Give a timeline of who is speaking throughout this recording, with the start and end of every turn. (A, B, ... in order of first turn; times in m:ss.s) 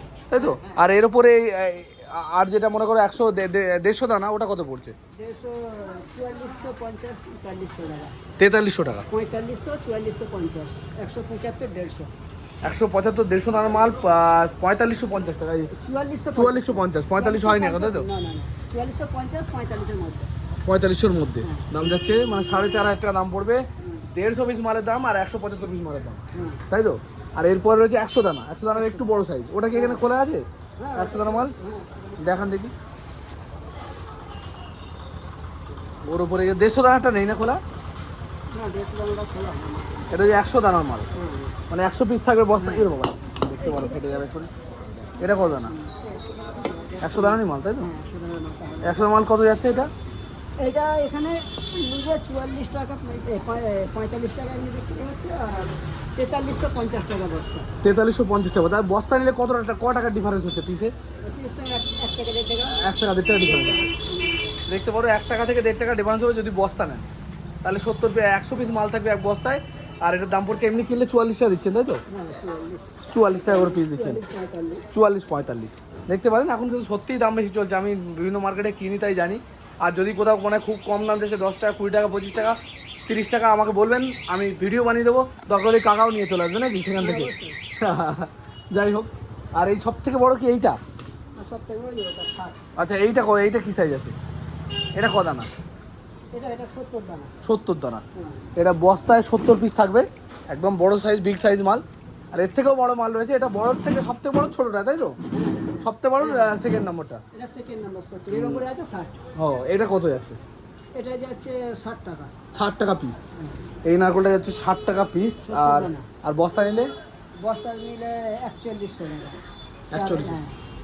0:00.3-0:04.9 A
0:00.3-0:00.8 B
0:05.2-0:08.1 B
0:08.4-0:09.0 A
0:09.1-0:12.1 B
0:12.6-0:15.7 A
0:15.7-0:20.3 B
0:16.3-0:18.1 A
0:20.6-0:31.5 A
0:21.4-0:21.7 B
0:23.8-0:24.1 B
0:26.3-0:26.6 B
0:28.7-0:29.1 B
0:29.7-0:30.0 B
0:30.8-0:32.5 B
0:32.2-0:32.7 A
0:36.0-0:37.6 A
0:38.5-0:40.4 B
0:40.1-0:41.1 A
0:41.1-0:41.6 B
0:41.7-0:44.5 A
0:42.5-0:42.9 B
0:43.6-0:44.2 B
0:45.1-0:49.1 B
0:45.2-0:45.7 A
0:47.0-0:47.9 A
0:48.8-0:49.9 A
0:50.6-0:57.7 B
0:57.8-1:00.9 A
1:01.2-1:04.6 B
1:02.7-1:03.8 A
1:04.7-1:07.1 A
1:07.6-1:12.0 A
1:12.1-1:14.9 B
1:13.1-1:14.2 A
1:14.9-1:30.8 A
1:27.0-1:27.6 B
1:31.4-1:32.6 B
1:32.8-1:34.1 A
1:34.9-1:35.5 A
1:36.3-1:37.3 B
1:37.4-1:38.0 A
1:38.1-1:38.5 B
1:38.6-1:45.2 A
1:45.3-1:46.6 B
1:45.8-1:47.2 A
1:47.3-1:49.2 B
1:48.3-1:48.6 A
1:49.4-1:50.4 A
1:50.9-1:52.3 B
1:52.5-1:53.2 A
1:53.4-1:53.7 B
1:53.8-1:56.9 A
1:55.5-1:56.1 B
1:57.4-1:59.4 B
1:59.9-2:00.4 A
1:59.9-2:00.6 B